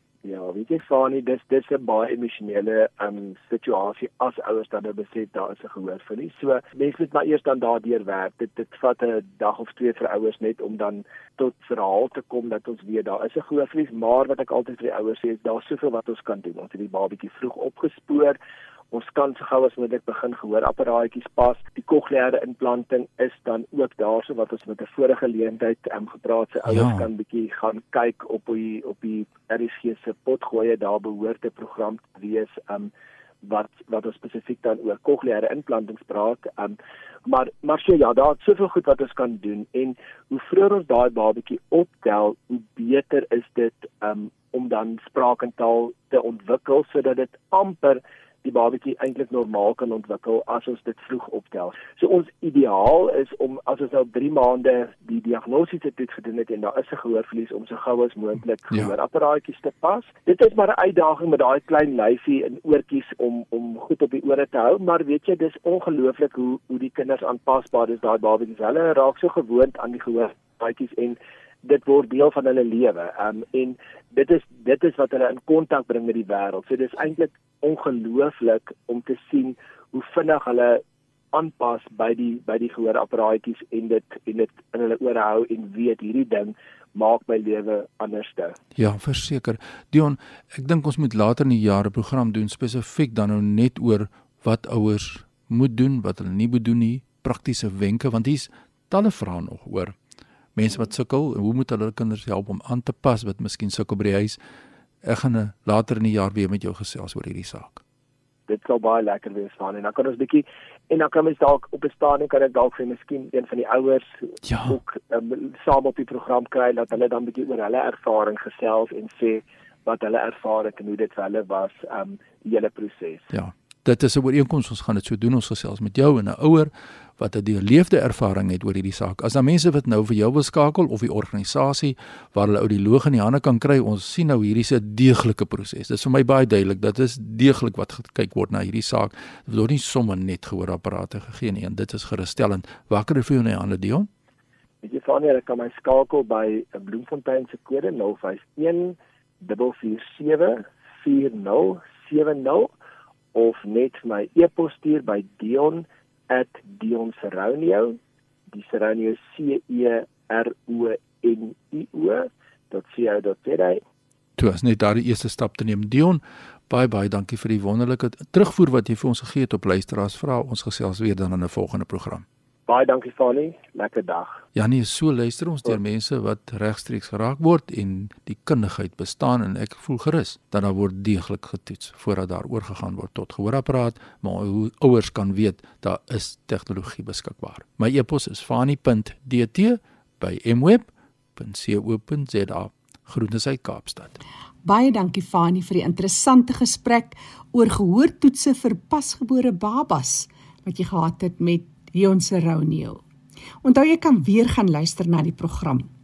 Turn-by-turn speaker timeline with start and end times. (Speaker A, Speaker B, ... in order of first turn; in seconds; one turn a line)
Speaker A: 0.2-18.4
Speaker A: 18.9-32.9
Speaker B: 26.7-27.1
Speaker A: 33.4-80.8
Speaker A: 81.3-88.6
Speaker B: 88.8-100.0
Speaker B: 100.5-104.4
Speaker B: 105.0-107.8
Speaker A: 108.5-123.3
Speaker B: 114.4-114.8
Speaker B: 123.3-144.1
Speaker A: 144.8-152.7
Speaker A: 153.3-158.0
Speaker A: 158.5-163.8
Speaker B: 164.4-172.2
Speaker A: 172.7-174.4
Speaker B: 174.5-194.2
Speaker C: 194.6-203.0
Speaker C: 203.6-205.9